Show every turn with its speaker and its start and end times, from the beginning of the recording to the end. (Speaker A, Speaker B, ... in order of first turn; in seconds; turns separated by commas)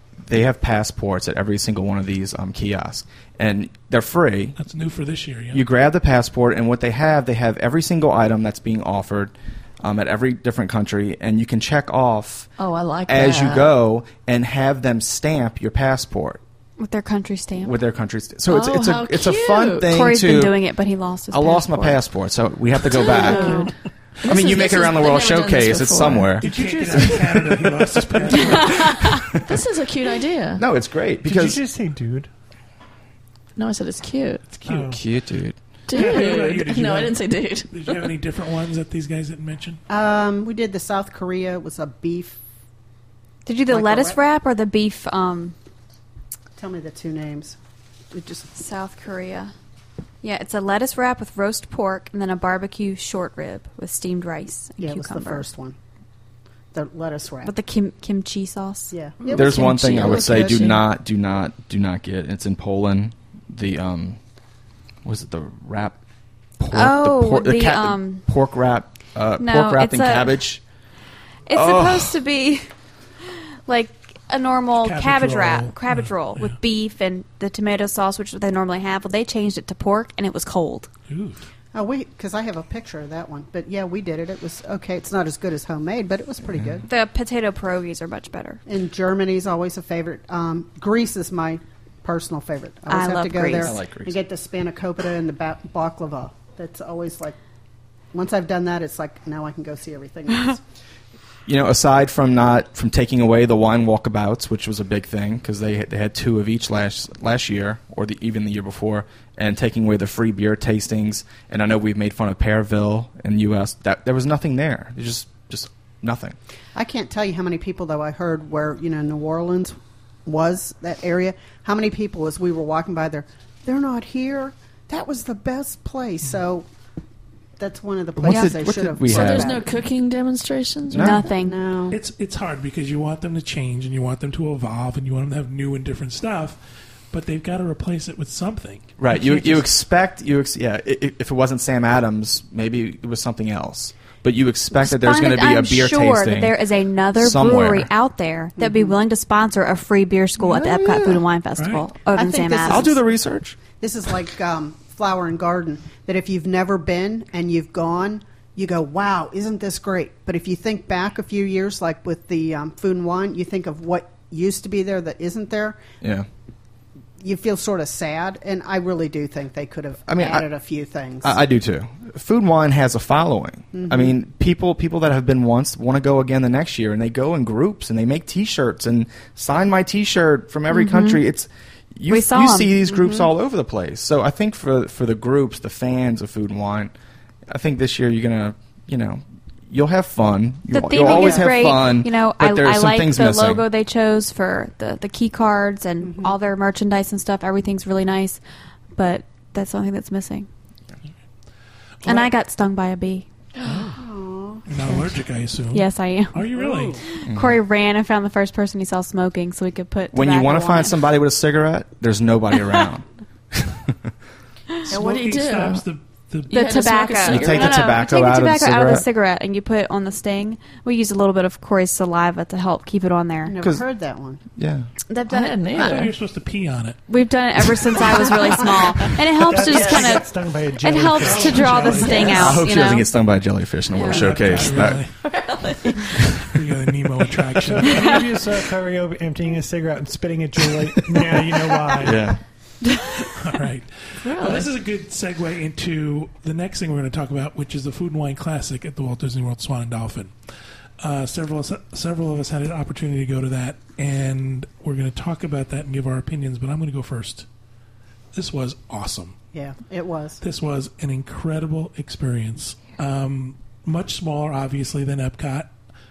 Speaker A: 0.2-4.6, Speaker B: 4.6-5.6, Speaker A: 5.5-12.5, Speaker C: 12.6-13.7, Speaker A: 13.1-16.4, Speaker D: 16.8-17.7, Speaker A: 17.6-20.6, Speaker C: 18.5-19.9, Speaker D: 19.9-22.0, Speaker A: 21.3-23.6, Speaker D: 22.9-23.7, Speaker C: 22.9-26.4, Speaker A: 24.3-26.5, Speaker E: 26.4-28.6, Speaker B: 26.4-29.0, Speaker C: 29.3-30.6, Speaker A: 30.6-31.6, Speaker E: 31.2-32.3, Speaker C: 33.6-34.5, Speaker B: 34.5-34.9, Speaker E: 34.6-35.0, Speaker A: 34.9-35.6, Speaker C: 35.9-37.7, Speaker B: 35.9-39.8, Speaker F: 39.9-42.4, Speaker D: 43.5-45.5, Speaker F: 43.7-44.2, Speaker F: 46.6-47.6, Speaker F: 48.1-48.5, Speaker D: 48.5-49.5, Speaker D: 50.2-55.5, Speaker F: 54.8-55.8, Speaker F: 56.7-57.5, Speaker D: 57.5-60.2, Speaker F: 58.9-60.8, Speaker A: 59.3-64.2, Speaker C: 59.6-60.7, Speaker A: 65.0-66.0, Speaker A: 66.6-70.6, Speaker D: 66.7-68.2, Speaker D: 69.4-70.3, Speaker D: 71.5-72.7, Speaker A: 71.5-72.2, Speaker D: 73.3-80.9, Speaker B: 74.8-76.6, Speaker B: 81.1-81.5, Speaker F: 81.7-86.9, Speaker D: 86.9-88.6, Speaker F: 88.7-97.4, Speaker D: 92.9-93.8, Speaker A: 93.6-94.2, Speaker F: 98.1-100.6, Speaker A: 101.5-116.4, Speaker F: 116.8-126.7, Speaker F: 127.6-129.6, Speaker A: 128.2-129.6, Speaker D: 128.3-128.6, Speaker C: 129.1-131.2, Speaker A: 130.9-131.3, Speaker D: 130.9-131.6, Speaker F: 131.4-132.0, Speaker B: 131.9-136.6, Speaker B: 137.1-139.7, Speaker A: 139.0-146.5, Speaker D: 144.8-152.9, Speaker A: 147.2-147.9, Speaker F: 148.6-148.9, Speaker A: 150.4-151.2, Speaker B: 151.6-151.9, Speaker F: 152.1-152.9, Speaker A: 152.6-153.6, Speaker F: 153.7-165.8, Speaker A: 166.0-166.3, Speaker F: 167.2-171.4, Speaker A: 170.1-170.5, Speaker A: 171.2-186.9, Speaker F: 173.7-174.1, Speaker D: 180.7-181.2, Speaker D: 182.1-182.8, Speaker F: 182.9-183.3, Speaker A: 187.5-193.6, Speaker D: 190.7-198.4, Speaker F: 191.0-191.5, Speaker F: 196.0-196.3, Speaker D: 198.9-200.5, Speaker B: 202.0-202.3, Speaker D: 202.1-203.3, Speaker B: 203.6-204.0, Speaker F: 203.9-204.6, Speaker B: 204.7-207.0, Speaker D: 205.7-211.0, Speaker F: 206.6-206.9, Speaker A: 207.3-207.6, Speaker A: 210.1-214.1, Speaker B: 214.9-216.8, Speaker C: 214.9-215.8, Speaker C: 216.5-218.0, Speaker D: 216.5-223.6, Speaker A: 217.2-219.1, Speaker F: 223.4-224.4, Speaker A: 223.6-223.8, Speaker A: 224.6-224.9, Speaker D: 225.1-226.1, Speaker C: 225.3-226.1, Speaker B: 225.8-227.0, Speaker D: 227.1-233.1, Speaker E: 229.5-232.4, Speaker C: 229.6-230.1, Speaker B: 231.1-232.6, Speaker A: 232.3-235.0, Speaker D: 233.9-234.3, Speaker B: 234.0-235.2, Speaker C: 234.9-236.2, Speaker B: 236.4-238.3, Speaker E: 237.5-242.3, Speaker A: 242.0-242.4, Speaker D: 242.9-243.3, Speaker B: 243.2-250.3, Speaker C: 244.2-244.7, Speaker B: 251.0-257.5, Speaker B: 258.3-259.4, Speaker F: 259.5-260.4, Speaker B: 260.4-265.7